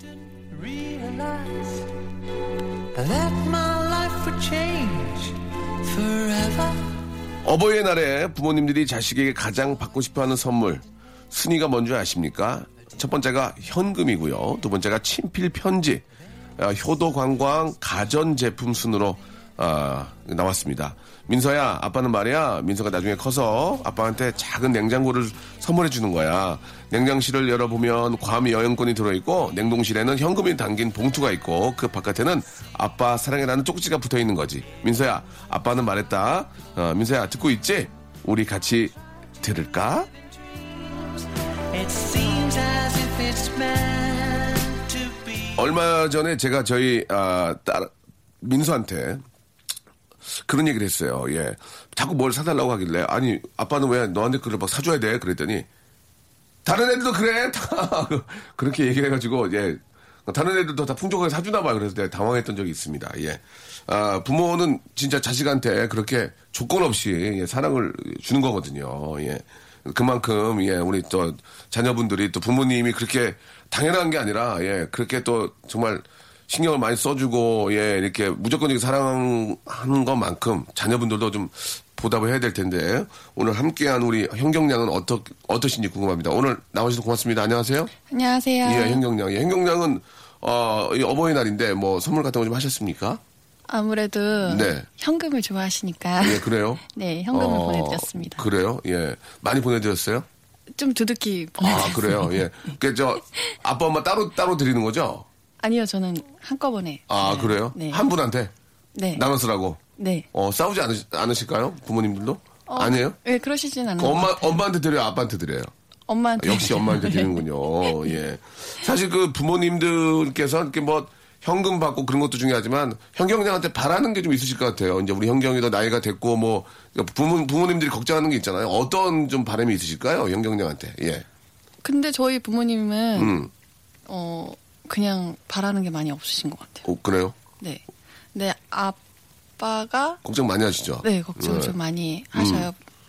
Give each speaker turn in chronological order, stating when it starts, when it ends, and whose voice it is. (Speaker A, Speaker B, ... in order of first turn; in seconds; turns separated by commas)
Speaker A: 0.5-1.8, Speaker A: 2.9-6.8, Speaker B: 7.4-16.0, Speaker B: 16.6-40.1, Speaker A: 41.7-45.6, Speaker B: 45.5-47.9, Speaker B: 48.4-49.2, Speaker B: 50.4-55.7, Speaker B: 56.6-87.9, Speaker C: 88.1-89.0, Speaker B: 88.6-93.2, Speaker C: 93.7-98.5, Speaker B: 94.4-94.8, Speaker B: 96.2-100.2, Speaker C: 100.8-102.4, Speaker B: 101.6-105.2, Speaker C: 105.6-108.0, Speaker B: 107.1-108.5, Speaker C: 108.9-109.2, Speaker B: 109.1-109.8, Speaker C: 110.0-110.3, Speaker B: 110.3-113.2, Speaker C: 112.7-114.6, Speaker B: 114.0-115.7, Speaker C: 116.1-118.1, Speaker B: 116.4-131.2, Speaker C: 131.8-133.4, Speaker B: 133.2-133.5, Speaker C: 134.1-136.8, Speaker B: 136.8-137.3, Speaker C: 138.3-139.0, Speaker C: 139.6-140.2, Speaker B: 140.2-141.7, Speaker C: 141.0-142.8, Speaker B: 142.3-142.7